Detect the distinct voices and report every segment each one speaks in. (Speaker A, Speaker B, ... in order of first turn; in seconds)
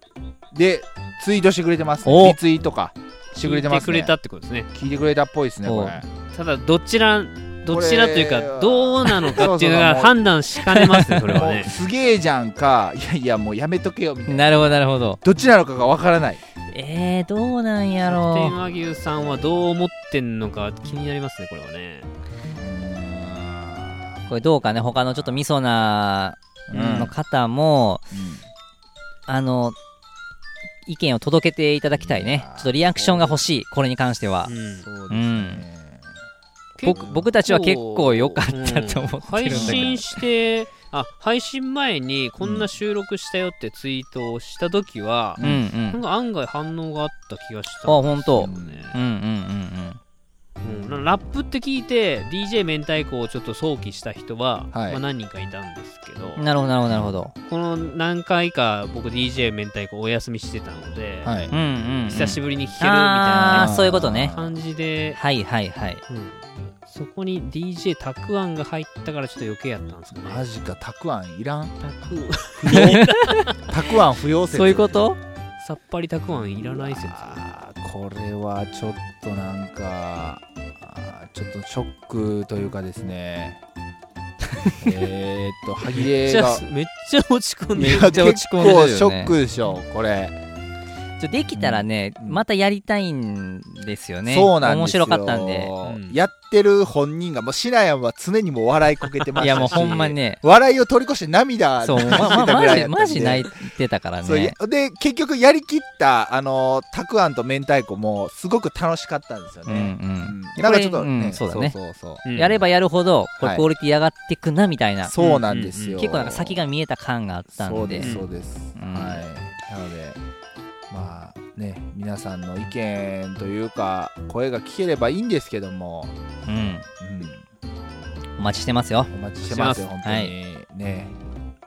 Speaker A: 0.5-4.2, 4.7-6.0, 7.7-10.2, 11.3-16.4, 19.1-19.6, 22.6-24.2, 25.1-25.4, 26.7-27.1, 28.1-28.4, 32.0-33.4, 34.8-36.1, 36.8-37.3, 39.5-40.0, 42.4-42.7, 45.4-45.7, 48.4-48.9, 54.7-55.0, 56.9-57.1, 61.2-61.5, 63.4-64.6, 70.2-71.8, 72.6-73.0, 73.6-75.0, 76.3-83.6, 84.8-86.6, 87.8-90.3, 91.5-92.4, 94.2-103.5, 104.2-112.2, 113.4-113.7, 115.0-116.6, 117.5-120.2, 120.9-126.1, 127.0-127.4, 129.1-131.1
Speaker B: 2.0-2.4, 5.6-6.0, 10.8-11.4, 14.3-15.2, 16.7-18.6, 24.3-28.1, 29.3-29.8, 30.9-34.5, 35.1-35.6, 36.8-40.2, 45.4-46.0, 47.9-50.0, 56.4-57.3, 61.5-64.3, 65.1-66.0, 72.7-73.5, 74.5-75.2, 87.8-89.3, 91.2-95.7, 99.4-100.4, 101.8-104.5, 109.7-111.7, 112.3-115.1, 116.0-118.2, 118.8-119.2, 126.5-126.9, 128.4-129.1, 130.0-130.3
Speaker C: 3.3-4.7, 6.3-11.7, 18.1-22.1, 34.5-34.9, 36.8-49.0, 50.6-56.5, 57.5-61.3, 62.1-65.2, 66.1-70.5, 71.8-73.6, 75.6-77.4, 86.1-88.3, 95.8-96.2, 99.3-100.1, 102.0-102.3, 112.2-112.6, 115.2-116.0, 118.0-118.3, 129.4-129.9